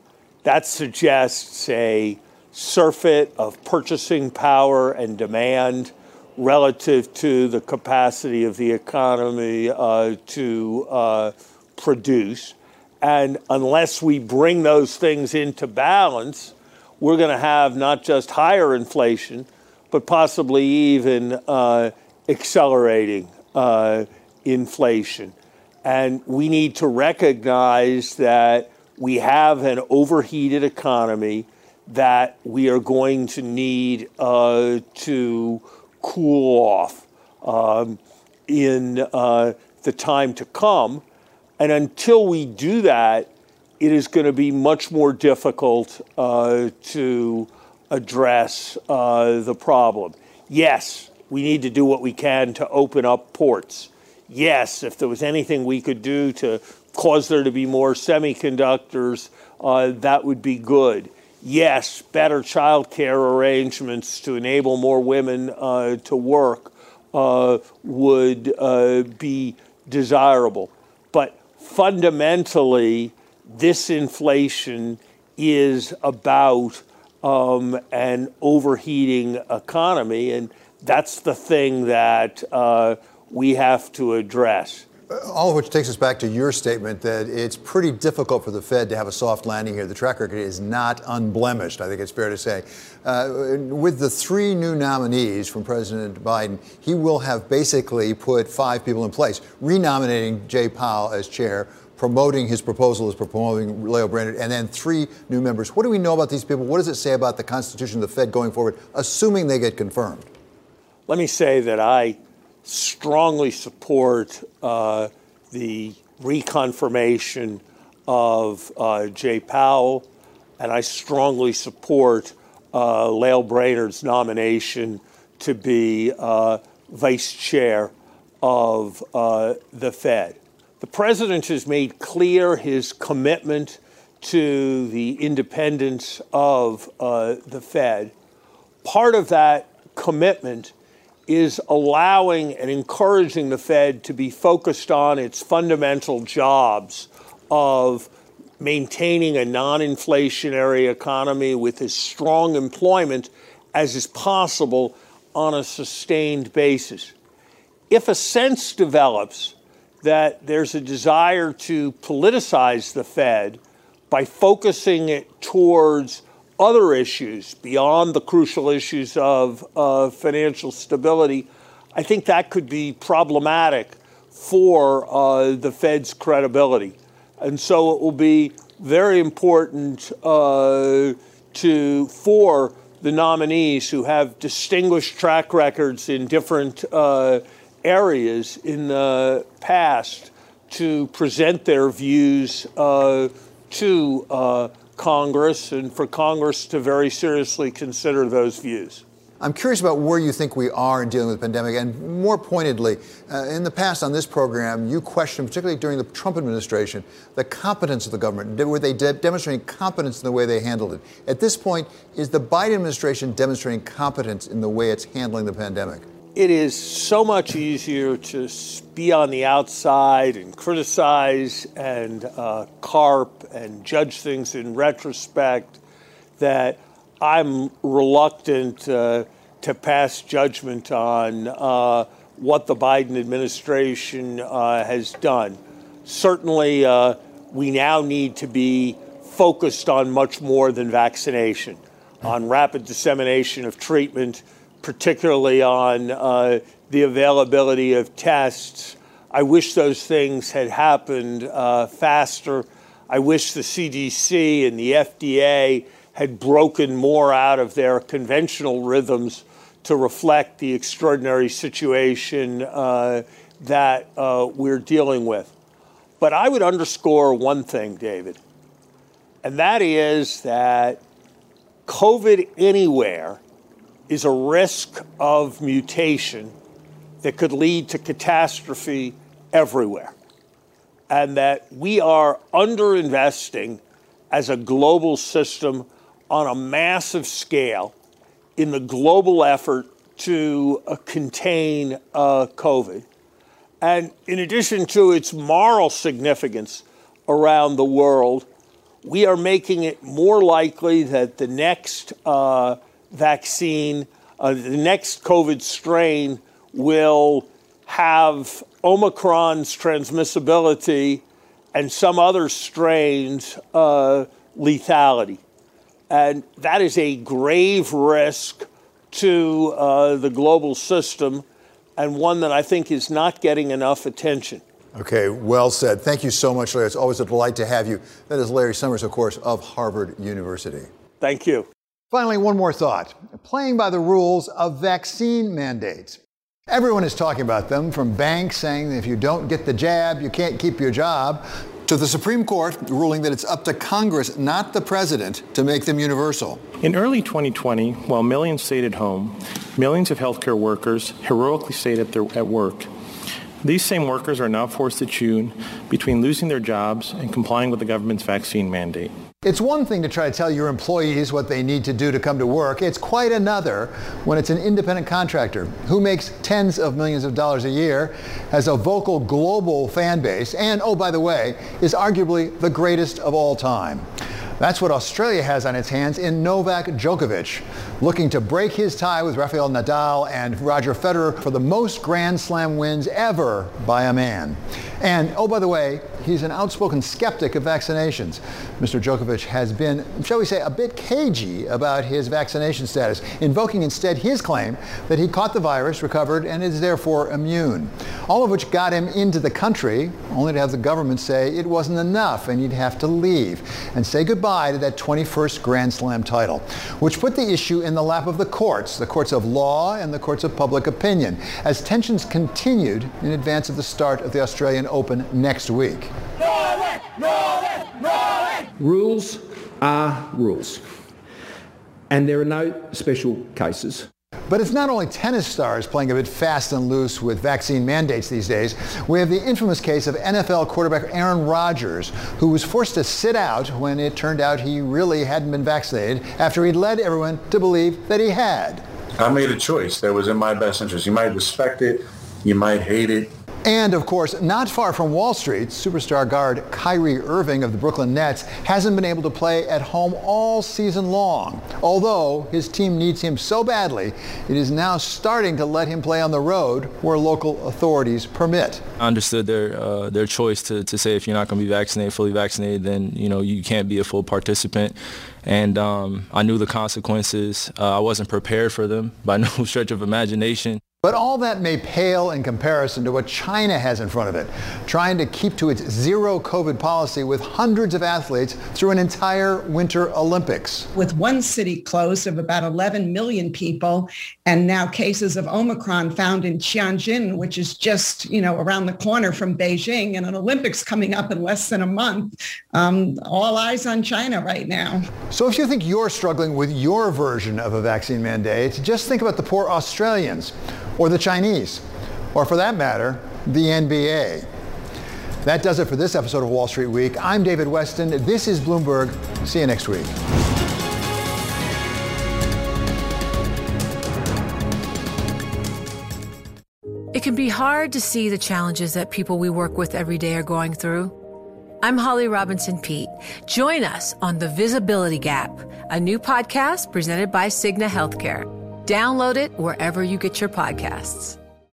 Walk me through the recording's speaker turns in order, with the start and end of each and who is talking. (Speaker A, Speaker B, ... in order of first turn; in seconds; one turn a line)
Speaker A: 0.4-41.0
Speaker A: 41.6-84.8
Speaker B: 85.1-110.3
Speaker A: 111.1-120.1
Speaker A: 120.6-138.1
Speaker A: 138.8-140.7
Speaker A: 141.3-148.1
Speaker A: 148.6-157.1
Speaker A: 157.9-163.6
Speaker A: 164.1-199.0
Speaker B: 199.4-216.1
Speaker A: 216.4-225.8
Speaker A: 226.4-265.5
Speaker A: 266.2-268.4
Speaker A: 269.4-271.0
Speaker A: 271.9-273.4
Speaker A: 274.1-276.6
Speaker A: 277.2-280.1
Speaker A: 281.1-287.9
Speaker A: 288.6-293.1
Speaker A: 293.8-298.5
Speaker A: 299.0-315.4
Speaker A: 316.1-321.4
Speaker A: 322.0-324.6
Speaker B: 324.9-330.9
Speaker A: 331.2-331.7
Speaker B: 332.1-346.6
Speaker C: 346.8-352.9
Speaker C: 353.6-359.1
Speaker B: 359.4-374.0
Speaker B: 374.6-416.1
Speaker D: 418.8-420.8
Speaker D: 422.1-424.0
Speaker B: 424.5-438.8
Speaker E: 439.2-443.3
Speaker B: 443.6-458.8
Speaker F: 459.0-470.8
Speaker B: 471.0-480.9
Speaker G: 480.9-495.1
Speaker B: 495.3-504.5
Speaker B: 505.4-510.1
Speaker H: 517.1-521.1
Speaker H: 521.8-531.4